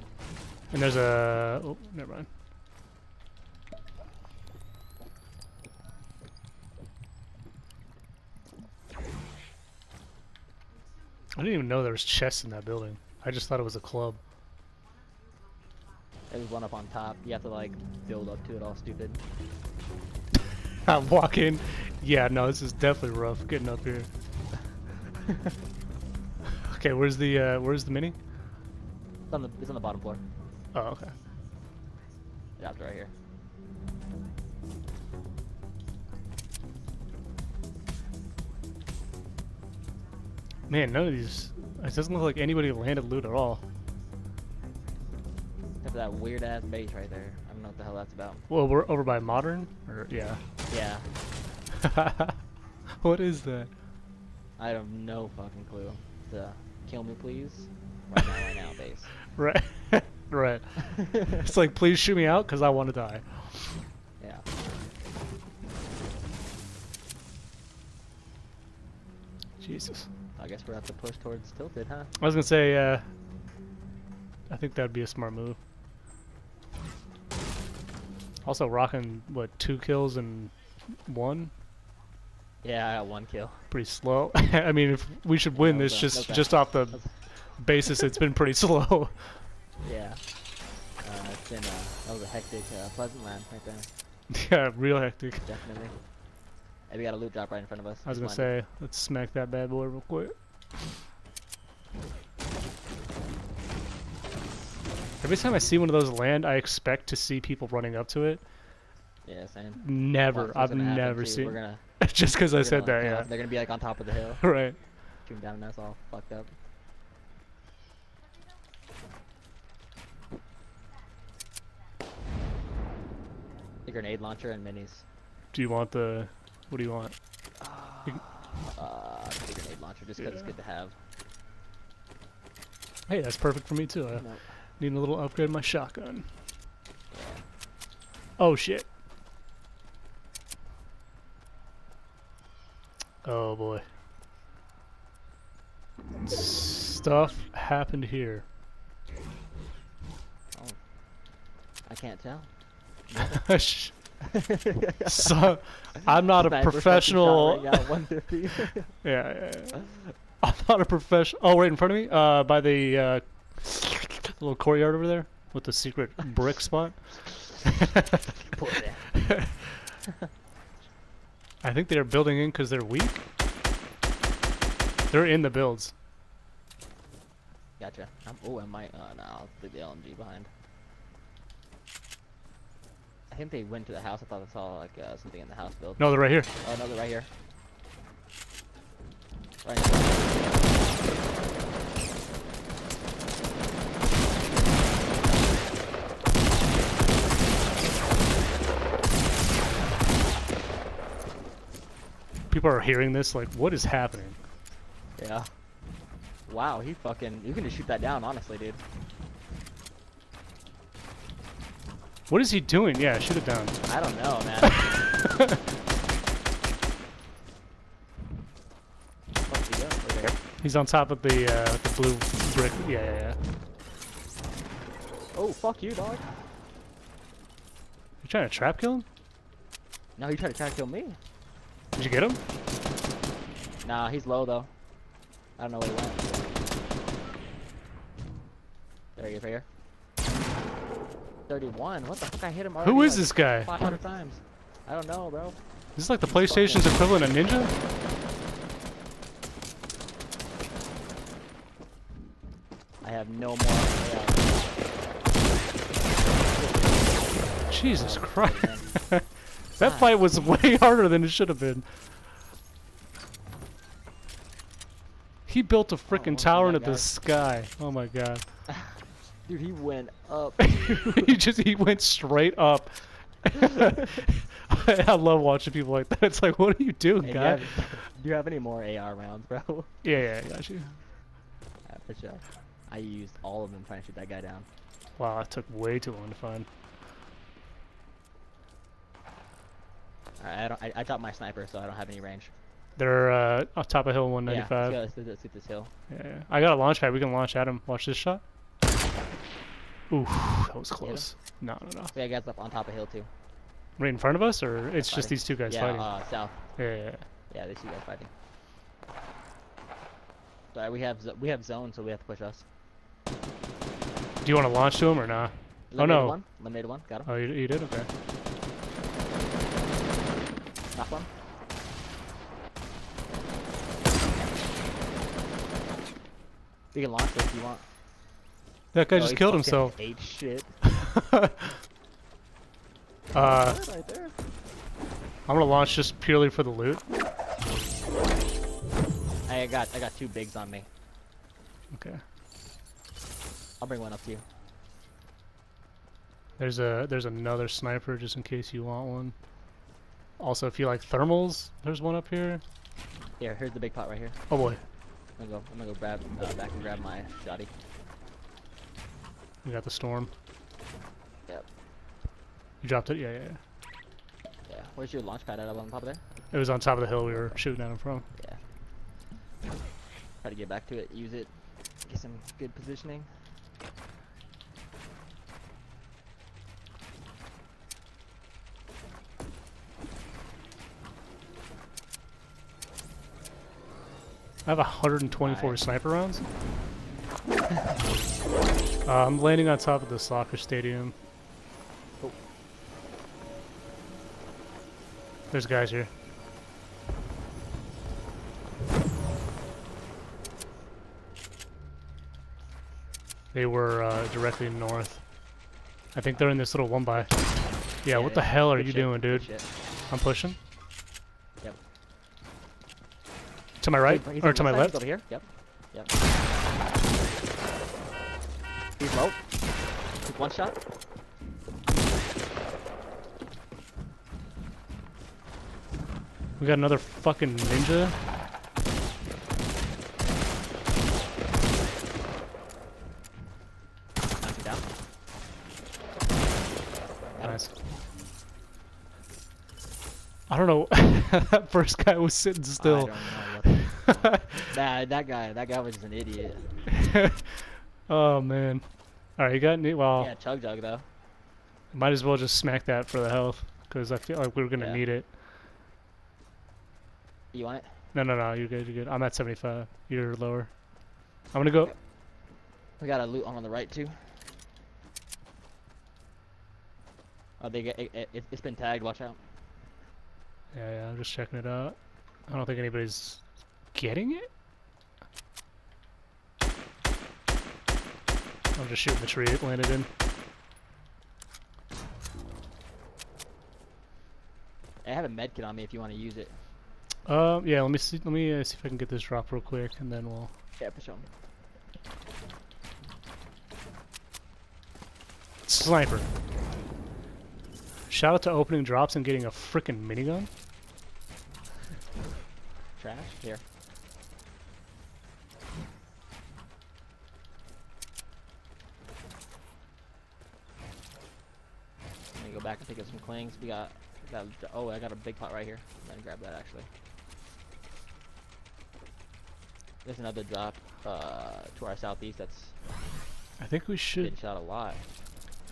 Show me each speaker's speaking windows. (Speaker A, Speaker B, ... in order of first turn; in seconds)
Speaker A: 0.7-2.3, 11.3-14.2, 20.8-24.1, 26.6-28.1, 30.7-31.1, 40.7-43.6, 48.5-50.4, 51.8-52.3, 53.0-53.7, 59.4-63.8, 69.6-70.1, 72.2-73.1, 74.5-75.6, 78.4-81.5, 83.7-89.4, 94.3-95.5, 98.0-100.3, 105.2-108.4, 109.8-113.3, 114.4-114.8, 125.5-127.1, 133.1-134.3, 134.8-136.3, 138.4-138.9, 143.2-143.8, 146.2-148.4, 153.3-154.2, 155.1-157.9, 159.0-168.2, 169.1-169.5, 171.6-173.2, 175.1-175.9, 186.0-186.5, 202.5-204.4, 212.3-213.8, 214.7-215.6, 220.6-223.4, 228.2-229.1, 232.0-232.4, 242.8-243.7, 245.9-247.7, 257.7-261.9, 265.4-268.7, 270.6-277.7, 280.0-280.9, 285.2-286.7, 293.0-295.0, 296.1-298.4, 300.1-302.1, 304.0-306.1, 306.8-307.2, 314.4-316.4, 317.2-318.1, 328.9-329.9, 330.8-331.8, 333.3-333.8, 335.5-337.0, 341.9-342.2, 346.6-349.3, 350.4-352.6, 354.5-354.8, 359.6-360.3, 362.8-363.6, 366.5-368.2, 384.6-386.4, 389.0-391.1, 395.5-396.1, 403.5-405.2, 406.1-407.4, 408.0-410.6, 413.8-415.0, 426.6-428.1, 437.4-437.8, 440.5-444.6, 446.9-450.3, 451.9-455.3, 458.1-460.8, 461.5-461.9, 470.7-471.9, 472.5-473.4, 473.9-474.5, 478.8-480.1, 487.2-490.5, 495.6-496.3, 498.1-500.5, 523.6-524.3
Speaker B: 16.3-19.2, 29.3-30.2, 32.6-33.1, 45.8-48.4, 50.7-51.1, 54.6-59.1, 64.2-64.4, 70.4-72.1, 82.6-83.6, 85.5-87.2, 89.8-90.2, 91.0-93.9, 95.4-96.0, 96.9-98.5, 109.2-111.8, 112.5-114.4, 115.2-116.5, 123.8-125.0, 127.6-130.9, 134.1-134.4, 137.1-137.4, 150.5-150.8, 151.8-152.5, 153.1-153.5, 154.2-155.3, 156.4-158.9, 168.5-169.1, 177.8-180.5, 183.3-187.3, 189.6-191.3, 205.2-205.5, 206.5-208.8, 213.9-214.8, 219.5-220.3, 225.3-226.3, 230.2-231.2, 233.8-234.7, 235.6-236.5, 239.2-239.7, 241.5-245.6, 246.2-247.0, 253.0-254.8, 255.9-258.9, 259.8-260.1, 266.1-267.1, 269.4-271.2, 277.2-279.9, 281.9-284.7, 290.4-292.5, 294.5-295.9, 301.0-301.3, 302.1-303.3, 305.0-306.6, 307.5-308.3, 310.7-312.6, 315.9-317.3, 320.9-321.3, 326.9-327.9, 329.1-330.8, 333.4-334.3, 339.5-340.9, 343.8-344.4, 353.4-354.4, 355.4-357.7, 364.7-366.2, 367.2-367.6, 368.3-368.6, 370.4-373.4, 385.4-385.8, 408.1-409.7, 414.0-416.1, 419.0-419.4, 420.2-420.8, 434.4-434.8, 437.4-437.6, 442.8-446.6, 450.2-451.1, 454.8-455.0, 457.5-457.9, 463.0-464.2, 467.6-469.4, 485.0-486.6, 490.8-491.3, 503.0-503.6, 512.4-516.9, 520.0-522.7, 524.2-525.0